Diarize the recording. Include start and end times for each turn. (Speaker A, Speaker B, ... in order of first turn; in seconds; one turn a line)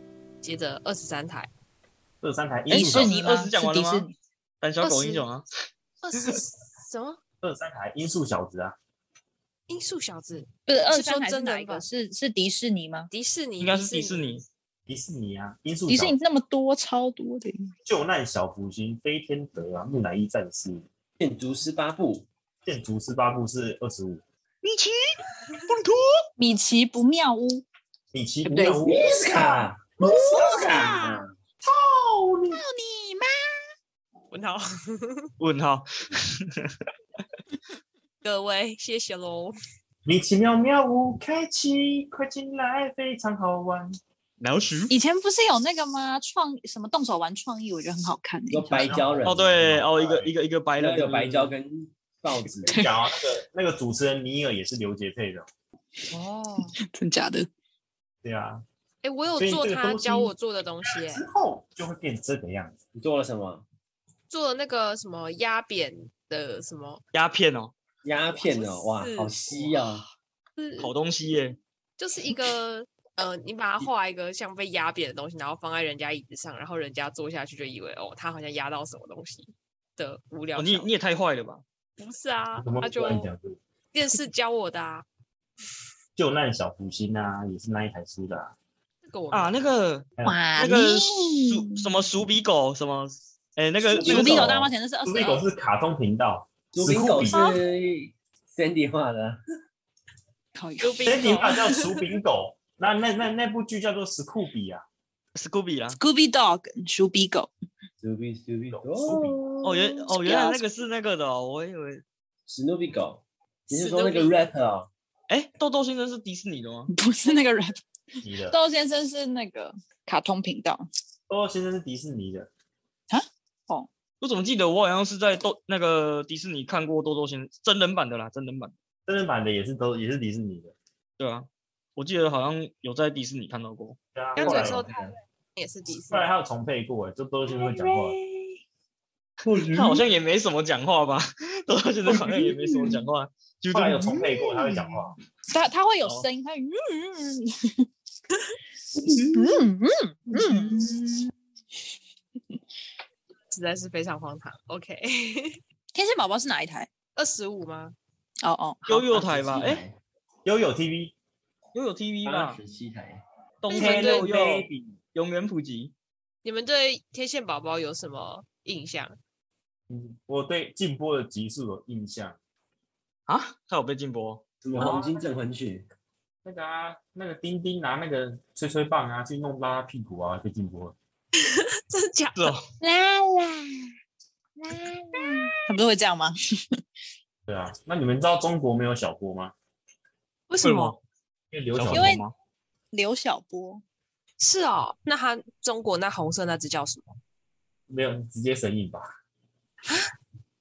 Speaker A: 0.4-1.5
Speaker B: 2.2-3.2
Speaker C: 2.7-4.1
Speaker D: 2.7-4.1
Speaker D: 4.6-5.5
Speaker A: 4.8-5.3
Speaker A: 6.0-7.2
Speaker B: 7.4-8.8
Speaker A: 9.7-11.8
Speaker C: 10.7-13.1
Speaker A: 13.1-14.3
Speaker D: 13.6-14.4
Speaker B: 14.9-16.1
Speaker C: 15.9-17.7
Speaker B: 17.8-20.9
Speaker E: 21.2-22.3
Speaker B: 22.6-24.2
Speaker D: 24.6-26.2
Speaker C: 26.4-27.6
Speaker B: 28.1-30.8
Speaker C: 28.4-28.9
Speaker E: 28.8-31.3
Speaker C: 30.0-31.2
Speaker B: 31.6-32.6
Speaker C: 32.5-33.4
Speaker A: 34.3-35.3
Speaker D: 35.4-36.7
Speaker A: 38.2-39.5
Speaker B: 40.0-44.0
Speaker D: 44.4-44.9
Speaker C: 44.9-49.0
Speaker E: 48.5-50.2
Speaker B: 48.8-50.3
Speaker D: 49.2-51.5
Speaker E: 50.8-52.9
Speaker B: 52.7-55.5
Speaker A: 56.1-56.8
Speaker C: 56.8-57.5
Speaker B: 58.2-58.6
Speaker A: 59.0-61.2
Speaker B: 59.4-60.3
Speaker B: 60.9-62.8
Speaker E: 63.0-63.7
Speaker A: 64.3-67.0
Speaker D: 67.1-67.7
Speaker E: 68.0-70.0
Speaker A: 68.3-69.8
Speaker A: 70.6-70.9
Speaker D: 70.8-71.6
Speaker A: 72.0-80.9
Speaker D: 80.6-81.6
Speaker A: 82.0-83.3
Speaker B: 82.6-83.6
Speaker A: 83.9-85.0
Speaker B: 86.2-88.5
Speaker A: 89.0-89.7
Speaker D: 89.3-94.5
Speaker C: 90.2-91.9
Speaker C: 93.9-95.5
Speaker E: 94.0-94.2
Speaker B: 94.0-97.6
Speaker E: 96.7-99.4
Speaker C: 100.5-101.5
Speaker A: 100.8-102.0
Speaker B: 101.0-104.8
Speaker D: 105.3-106.0
Speaker C: 105.9-107.5
Speaker E: 108.0-109.4
Speaker B: 108.7-109.4
Speaker C: 109.4-110.6
Speaker D: 109.6-112.0
Speaker E: 112.5-114.9
Speaker A: 113.7-114.4
Speaker D: 115.3-116.9
Speaker C: 116.9-117.8
Speaker B: 118.2-118.6
Speaker C: 118.4-120.8
Speaker B: 121.3-122.5
Speaker C: 123.1-123.9
Speaker D: 124.2-128.7
Speaker B: 129.1-130.7
Speaker D: 131.2-134.5
Speaker B: 134.1-134.9
Speaker A: 134.4-136.3
Speaker E: 134.4-135.1
Speaker B: 136.1-138.2
Speaker C: 137.5-138.6
Speaker E: 139.4-140.1
Speaker D: 139.6-144.1
Speaker B: 143.7-145.1
Speaker C: 144.0-147.9
Speaker E: 148.9-149.6
Speaker C: 149.3-151.3
Speaker A: 153.5-155.6
Speaker C: 155.9-156.9
Speaker A: 157.2-157.9
Speaker C: 158.4-159.1
Speaker D: 158.9-159.8
Speaker E: 159.1-160.0
Speaker B: 160.4-161.1
Speaker D: 161.7-162.6
Speaker E: 162.2-163.2
Speaker D: 163.6-165.9
Speaker A: 163.7-164.3
Speaker B: 163.7-164.9
Speaker A: 166.4-169.2
Speaker B: 169.9-172.4
Speaker D: 173.3-174.4
Speaker E: 174.6-175.8
Speaker B: 174.8-175.3
Speaker B: 176.4-180.9
Speaker A: 181.4-182.6
Speaker D: 182.4-182.6
Speaker C: 182.8-183.9
Speaker C: 184.6-186.3
Speaker B: 187.5-189.5
Speaker A: 190.5-190.9
Speaker D: 190.6-191.0
Speaker B: 191.5-192.1
Speaker D: 191.7-192.3
Speaker C: 191.9-192.2
Speaker C: 192.9-193.8
Speaker A: 194.4-197.1
Speaker B: 197.9-199.1